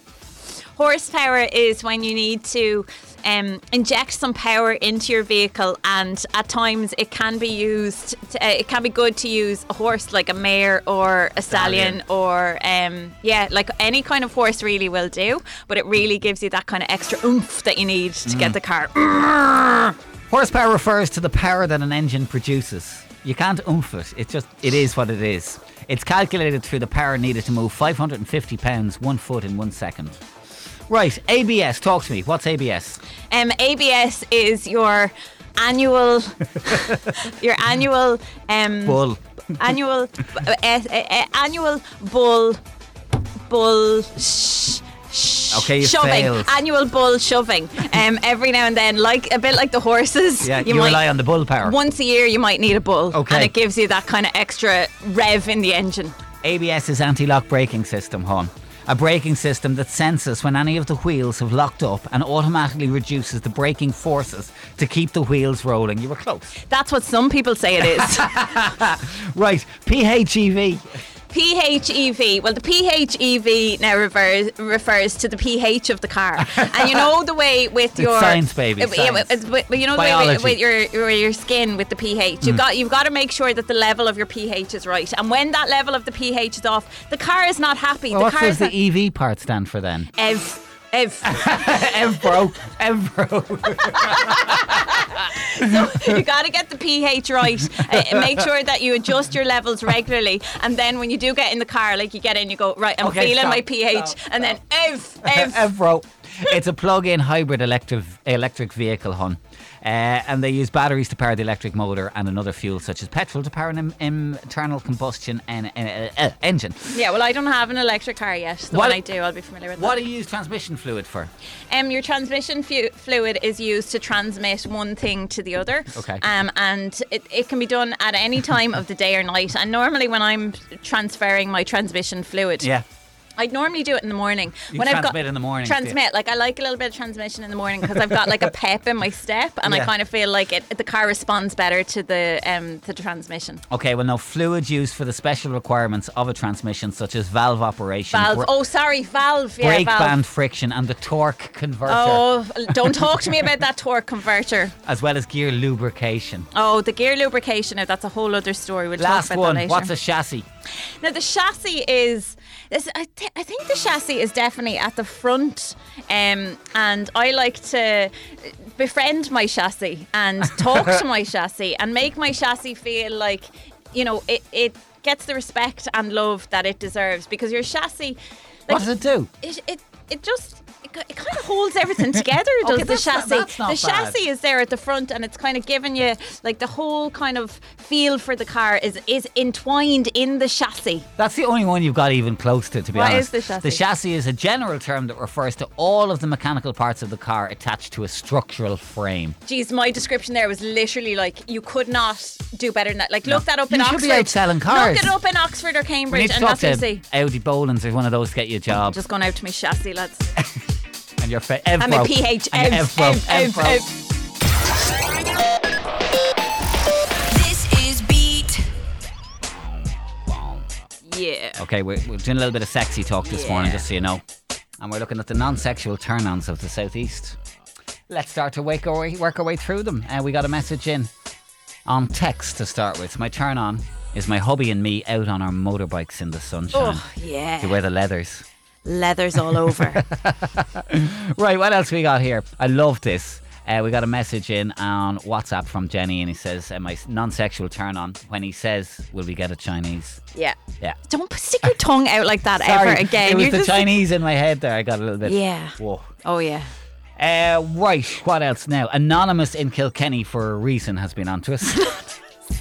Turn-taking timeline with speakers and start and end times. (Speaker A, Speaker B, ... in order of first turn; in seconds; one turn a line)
Speaker A: 0.8-19.9
Speaker B: 11.5-12.0
Speaker B: 18.3-18.6
Speaker B: 20.3-30.2
Speaker B: 30.9-33.0
Speaker A: 33.3-42.6
Speaker B: 38.9-39.2
Speaker A: 43.5-56.1
Speaker B: 45.5-46.5
Speaker B: 50.4-51.8
Speaker B: 53.1-53.5
Speaker B: 56.4-66.5
Speaker A: 66.7-68.4
Speaker B: 67.8-70.9
Speaker A: 71.3-88.7
Speaker B: 76.4-77.1
Speaker B: 78.0-80.6
Speaker B: 88.1-90.1
Speaker A: 90.2-91.9
Speaker B: 91.2-95.1
Speaker A: 93.9-105.7
Speaker B: 95.6-96.2
Speaker B: 97.7-98.5
Speaker B: 103.0-104.5
Speaker B: 105.2-117.0
Speaker A: 116.9-120.0
Speaker B: 118.7-119.0
Speaker B: 119.8-121.3
Speaker A: 121.7-132.7
Speaker B: 125.9-126.2
Speaker B: 132.6-132.8
Speaker A: 133.4-143.6
Speaker B: 134.7-136.0
Speaker B: 139.7-139.9
Speaker B: 143.7-148.5
Speaker A: 148.1-150.2
Speaker B: 149.6-153.2
Speaker A: 151.9-154.7
Speaker B: 154.8-156.5
Speaker A: 156.5-159.9
Speaker B: 159.0-160.5
Speaker A: 161.0-191.1
Speaker B: 178.7-179.3
Speaker B: 182.6-184.2
Speaker B: 191.2-199.4
Speaker A: 192.9-193.8
Speaker A: 199.5-207.0
Speaker B: 203.2-205.2
Speaker B: 206.1-209.0
Speaker A: 208.9-210.3
Speaker B: 211.2-213.9
Speaker A: 211.8-214.0
Speaker B: 219.4-220.7
Speaker A: 221.1-221.6
Speaker B: 221.6-224.2
Speaker A: 223.2-223.9
Speaker B: 224.8-227.4
Speaker B: 228.1-231.1
Speaker B: 231.9-237.1
Speaker A: 236.7-237.8
Speaker B: 237.6-238.5
Speaker A: 238.8-240.1
Speaker B: 239.7-250.2
Speaker A: 250.3-254.0
Speaker B: 252.6-256.1
Speaker A: 255.2-256.7
Speaker B: 257.2-262.1